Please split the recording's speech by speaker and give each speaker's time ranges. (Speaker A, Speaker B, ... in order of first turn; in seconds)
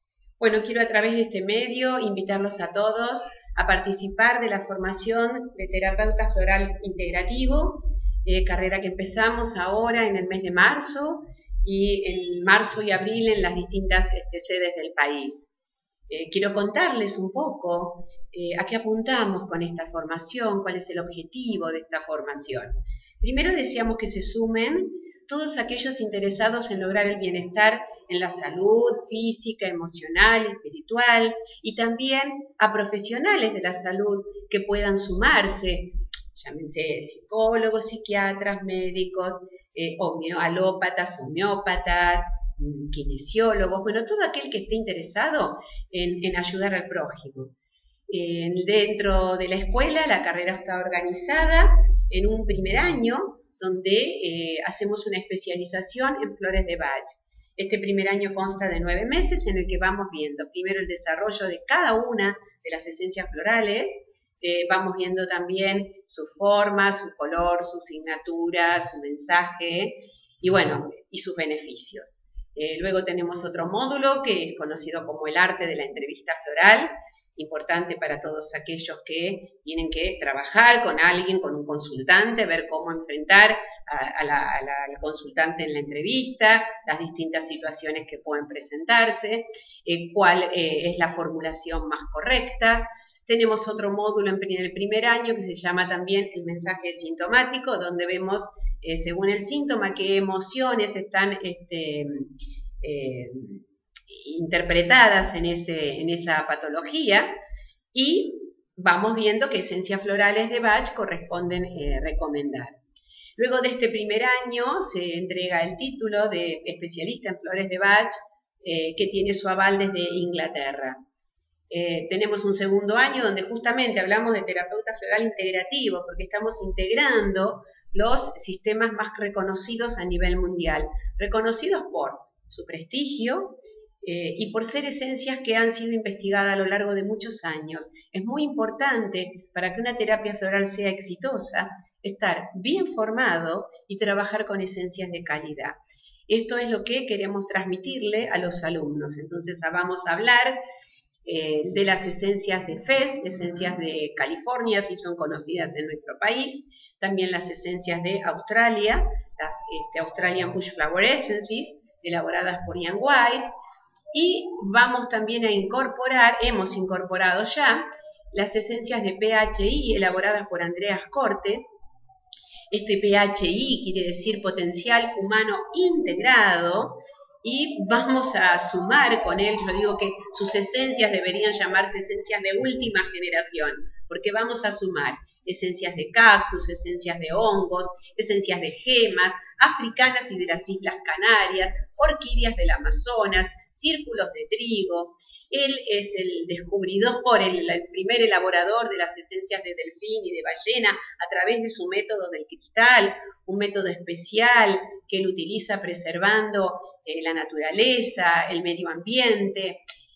Speaker A: 0.4-15.5, 16.1-47.5, 48.1-107.3, 107.9-112.8, 113.4-121.0, 121.7-145.8, 146.3-150.6, 151.2-163.5, 164.1-171.6, 172.7-209.8